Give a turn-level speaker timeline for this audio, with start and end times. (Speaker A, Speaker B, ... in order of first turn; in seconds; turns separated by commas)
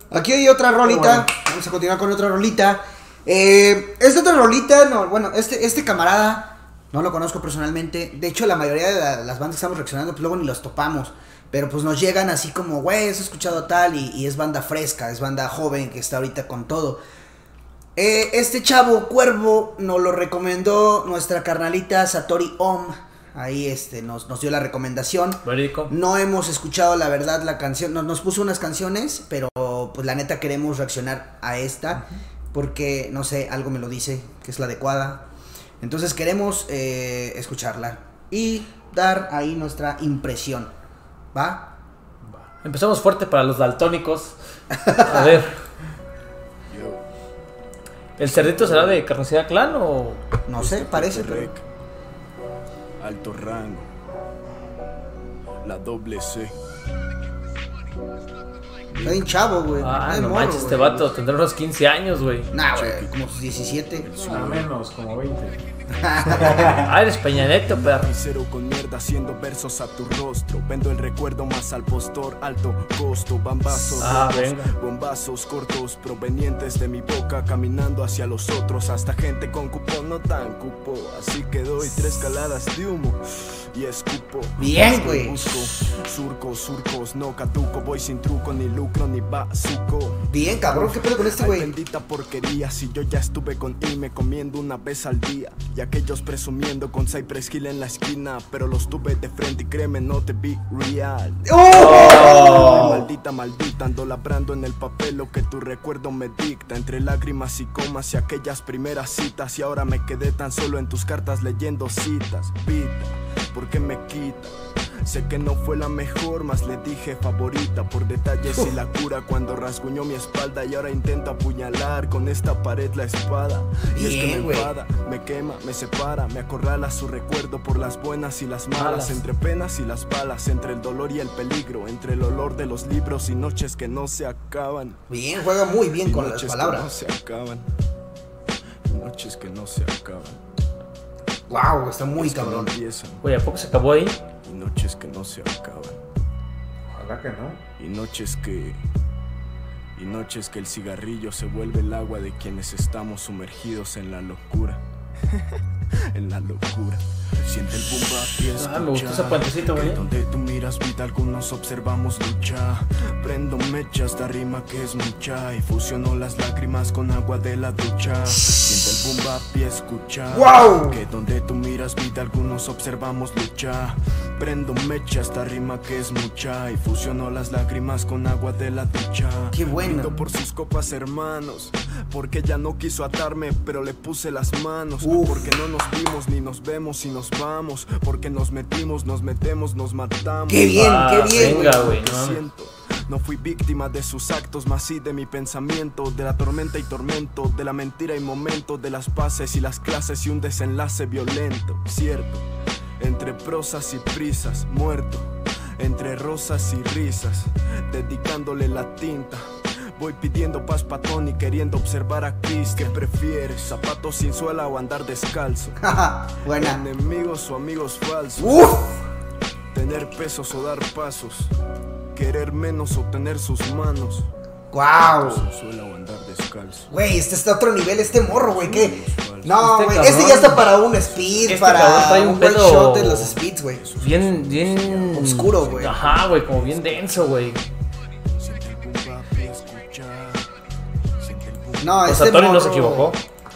Speaker A: 0.1-17.0, Speaker B: 0.8-1.3, Speaker A: 17.9-35.3, Speaker C: 25.4-25.9, Speaker A: 35.8-40.7, Speaker A: 41.3-41.7, Speaker B: 42.2-42.5, Speaker C: 42.6-44.4, Speaker A: 44.7-45.4, Speaker C: 45.0-45.5, Speaker D: 46.7-47.0, Speaker C: 48.2-50.4, Speaker A: 48.3-49.0, Speaker D: 48.5-48.9, Speaker A: 50.5-51.5, Speaker D: 50.5-51.6, Speaker D: 53.0-53.9, Speaker D: 55.6-56.5, Speaker D: 58.9-59.4, Speaker A: 59.0-61.0, Speaker C: 59.8-62.5, Speaker B: 60.6-61.0, Speaker A: 62.5-64.1, Speaker D: 62.7-63.2, Speaker D: 64.0-64.7, Speaker B: 64.2-65.6, Speaker A: 65.9-66.9, Speaker B: 66.2-67.0, Speaker C: 66.6-68.1, Speaker D: 67.4-83.2, Speaker A: 73.8-74.2, Speaker C: 74.0-74.7, Speaker A: 81.8-82.2, Speaker D: 83.7-135.0, Speaker A: 84.6-85.6, Speaker A: 90.3-91.7, Speaker A: 101.4-103.0, Speaker C: 101.7-103.0, Speaker A: 123.9-124.8, Speaker C: 128.8-129.2, Speaker A: 135.1-136.9, Speaker D: 136.0-137.7, Speaker D: 138.8-140.4, Speaker A: 141.5-142.7, Speaker D: 142.2-143.2, Speaker C: 143.2-144.2, Speaker D: 144.4-146.0, Speaker B: 146.9-147.6, Speaker D: 147.8-148.8, Speaker D: 150.0-154.8, Speaker D: 156.1-202.5, Speaker C: 158.5-160.0, Speaker A: 170.3-171.0, Speaker A: 179.5-180.2, Speaker A: 185.0-185.5, Speaker A: 190.5-191.8, Speaker C: 190.8-192.4, Speaker D: 203.0-215.8, Speaker A: 215.8-216.8, Speaker D: 216.5-218.7, Speaker A: 218.4-219.0, Speaker D: 219.7-221.5, Speaker D: 222.1-224.3, Speaker A: 224.7-225.4, Speaker D: 225.2-226.9, Speaker A: 226.9-233.8, Speaker D: 227.9-229.7, Speaker C: 229.6-230.7, Speaker D: 230.2-232.2, Speaker C: 231.5-233.4, Speaker D: 233.5-237.6, Speaker C: 234.0-237.6, Speaker A: 235.1-236.0, Speaker D: 238.4-240.5, Speaker D: 241.2-242.3, Speaker A: 241.8-243.2, Speaker C: 242.1-243.2